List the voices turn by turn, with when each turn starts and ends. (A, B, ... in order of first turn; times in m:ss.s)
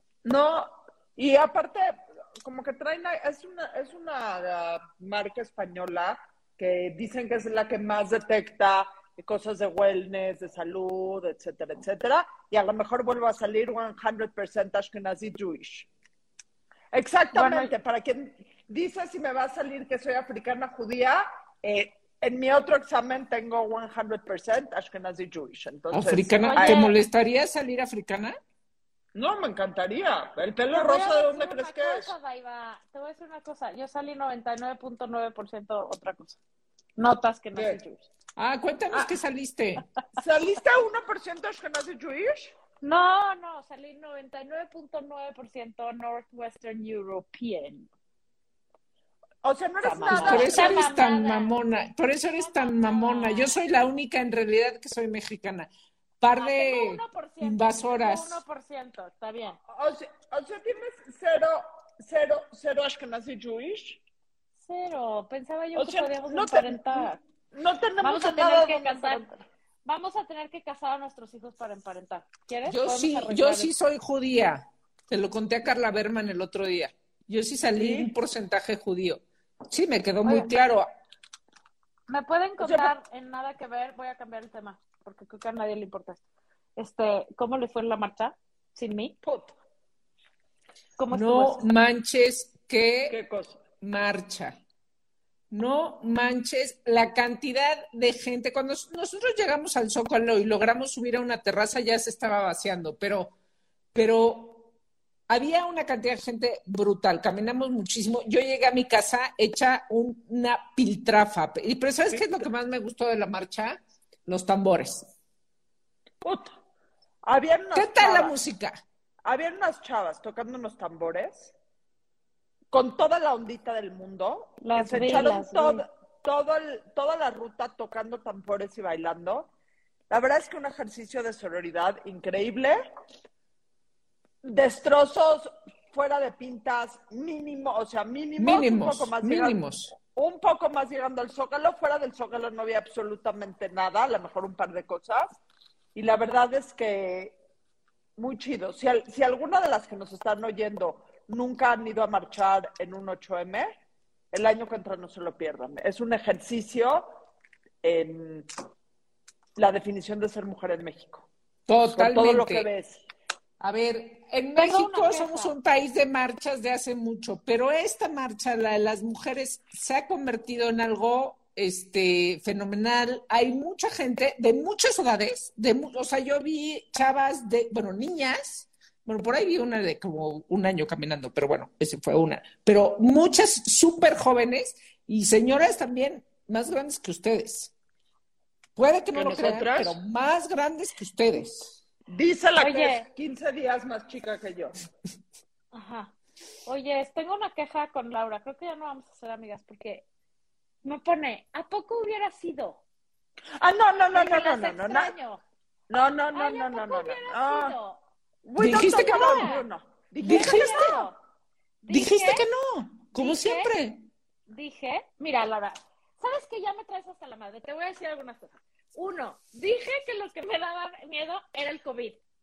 0:00.2-0:15.9 A
0:16.9-0:26.9 A
0:17.3-0:17.7 B
0:25.9-0:28.4 C
0:26.5-0:26.9 B
0:29.1-0:32.1 A
0:30.7-0:36.4 B
0:37.0-0:38.1 B
0:38.4-0:39.8 C
0:40.2-0:42.5 A
0:42.8-0:47.9 B
0:49.4-0:50.8 A
0:49.8-0:51.5 B
0:50.1-0:55.7 C
0:52.3-0:53.6 B
0:56.2-0:58.4 C
0:56.4-0:59.6 B
0:59.7-1:04.0 A
1:04.6-1:07.2 B
1:05.8-1:09.3 A
1:08.0-1:09.3 B
1:09.8-1:13.7 B
1:12.7-1:20.9 C
1:17.7-1:18.1 A
1:20.2-1:20.5 B
1:22.1-1:26.2 B
1:22.6-1:22.9 A
1:26.8-1:29.2 B
1:29.2-1:29.5 A
1:31.0-1:31.6 B
1:31.1-1:33.2 C
1:33.1-1:33.6 A
1:33.8-1:34.6 C
1:35.5-1:43.3 C
1:43.9-1:44.7 C
1:45.3-1:55.1 C
1:56.2-1:56.5 A
1:57.2-1:58.4 A
1:57.7-1:58.8 C
1:59.2-2:01.5 A
2:02.7-2:09.5 A
2:04.6-2:05.8 B
2:10.1-2:12.8 A
2:14.4-2:25.4 A
2:18.4-2:19.9 C
2:25.9-2:27.4 A
2:28.2-2:33.7 A
2:34.3-2:37.1 A
2:37.8-2:38.5 A
2:39.6-2:41.3 A
2:41.7-2:42.7 C
2:41.9-2:43.0 A
2:43.6-3:07.7 C
2:44.6-2:45.5 B
3:08.8-3:11.8 C
3:09.1-3:10.0 A
3:12.1-3:14.8 A
3:12.6-3:13.0 B
3:15.7-3:16.1 B
3:16.6-3:20.0 B
3:20.8-3:22.8 B
3:23.6-3:25.1 A
3:24.1-3:25.4 B
3:25.9-3:27.8 A
3:26.3-3:28.0 B
3:28.4-3:31.0 A
3:28.6-3:29.5 C
3:28.8-3:29.6 B
3:30.2-3:31.0 C
3:30.2-3:31.2 B
3:31.8-3:32.4 B
3:31.9-3:34.0 C
3:33.1-3:33.7 B
3:34.5-3:42.2 B